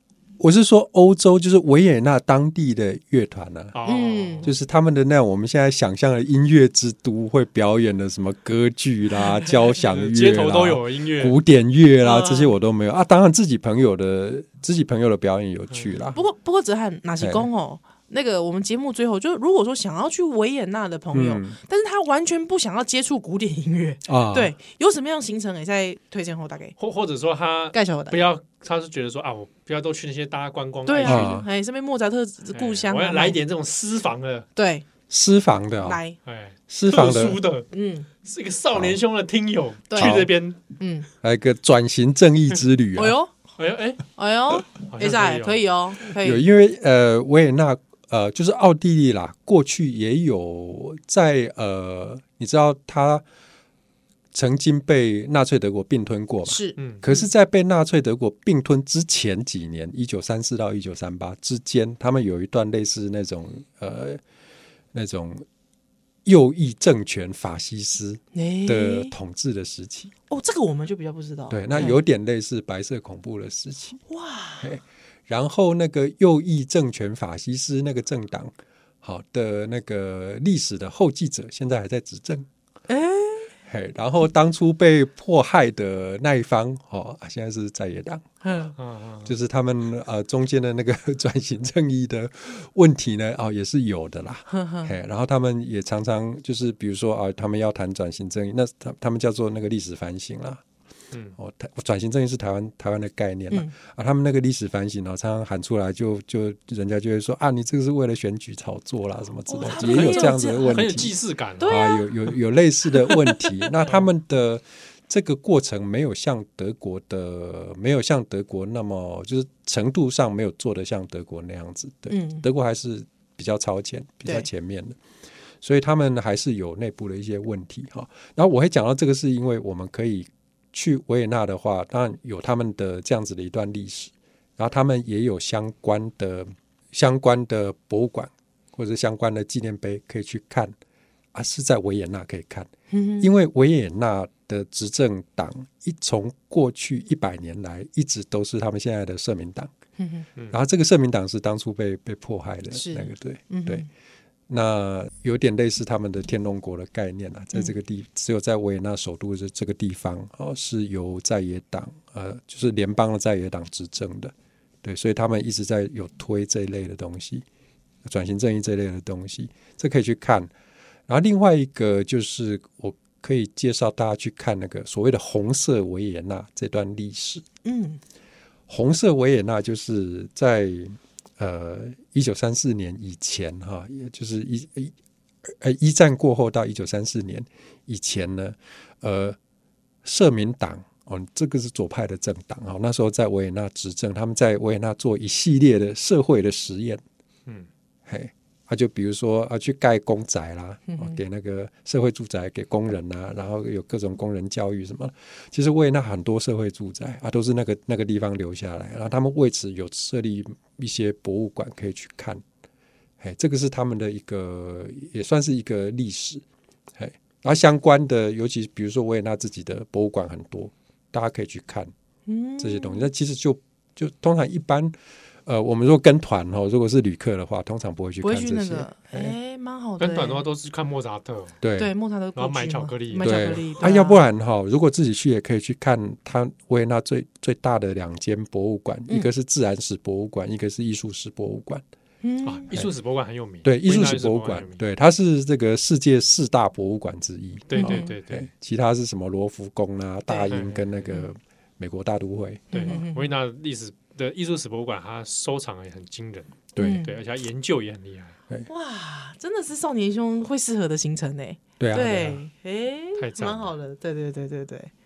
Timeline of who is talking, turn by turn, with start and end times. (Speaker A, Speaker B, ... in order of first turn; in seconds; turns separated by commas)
Speaker A: 0.4-3.7, Speaker B: 3.7-4.6, Speaker C: 3.8-4.5, Speaker A: 4.4-16.2, Speaker B: 9.7-11.4, Speaker C: 12.0-12.5, Speaker B: 15.7-16.2, Speaker C: 16.1-26.8, Speaker A: 17.2-17.5, Speaker A: 21.1-21.6, Speaker A: 24.1-24.5, Speaker B: 26.8-31.4, Speaker C: 27.7-28.2, Speaker C: 30.9-33.4, Speaker A: 31.0-31.4, Speaker B: 32.5-34.5, Speaker C: 34.5-34.8, Speaker A: 35.1-36.0, Speaker C: 35.8-36.2, Speaker B: 36.2-37.7, Speaker A: 36.7-37.4, Speaker C: 37.7-38.1, Speaker B: 38.2-40.6, Speaker A: 38.7-39.0, Speaker C: 39.9-41.1, Speaker A: 40.0-40.3, Speaker A: 41.2-43.2, Speaker C: 43.0-43.3, Speaker B: 43.6-44.0, Speaker C: 44.2-46.4, Speaker B: 44.8-45.6, Speaker A: 46.1-53.2, Speaker A: 54.3-64.2, Speaker C: 56.5-57.3, Speaker B: 56.8-57.0, Speaker A: 64.9-65.4, Speaker A: 66.2-70.1, Speaker C: 68.3-69.1, Speaker C: 70.3-72.0, Speaker A: 71.5-74.0, Speaker C: 74.1-74.7, Speaker A: 74.6-82.5, Speaker C: 82.9-83.5, Speaker A: 83.7-88.2, Speaker C: 88.4-88.7, Speaker B: 88.8-89.3, Speaker A: 89.2-100.6, Speaker C: 94.5-94.9, Speaker A: 101.4-125.0, Speaker C: 109.5-111.0, Speaker B: 109.7-111.8, Speaker C: 111.6-112.1, Speaker C: 112.9-113.5, Speaker C: 122.1-122.4, Speaker A: 125.6-140.7, Speaker A: 141.3-149.7, Speaker C: 142.9-143.3, Speaker C: 150.0-150.2, Speaker A: 150.5-153.9, Speaker C: 152.7-153.9, Speaker A: 154.5-167.4, Speaker A: 168.0-170.5, Speaker A: 171.1-177.4, Speaker C: 177.6-178.0, Speaker A: 178.7-184.9, Speaker A: 185.4-189.4, Speaker A: 190.0-197.0, Speaker A: 198.1-212.4, Speaker C: 200.9-201.2, Speaker A: 213.2-216.4, Speaker A: 216.9-221.9, Speaker C: 222.3-223.1, Speaker A: 222.6-224.9, Speaker A: 225.4-229.3, Speaker C: 228.2-230.4, Speaker B: 230.0-231.6, Speaker A: 231.6-231.9, Speaker C: 231.8-234.2, Speaker B: 232.3-233.7, Speaker A: 233.2-241.8, Speaker C: 242.2-242.7, Speaker B: 242.4-244.8, Speaker A: 243.6-253.0, Speaker B: 247.7-248.5, Speaker C: 247.7-248.1, Speaker B: 250.5-251.0, Speaker C: 252.7-253.3, Speaker B: 252.7-258.4, Speaker A: 256.8-257.0, Speaker C: 256.8-257.1, Speaker C: 258.7-264.9, Speaker A: 261.8-262.4, Speaker B: 263.2-263.7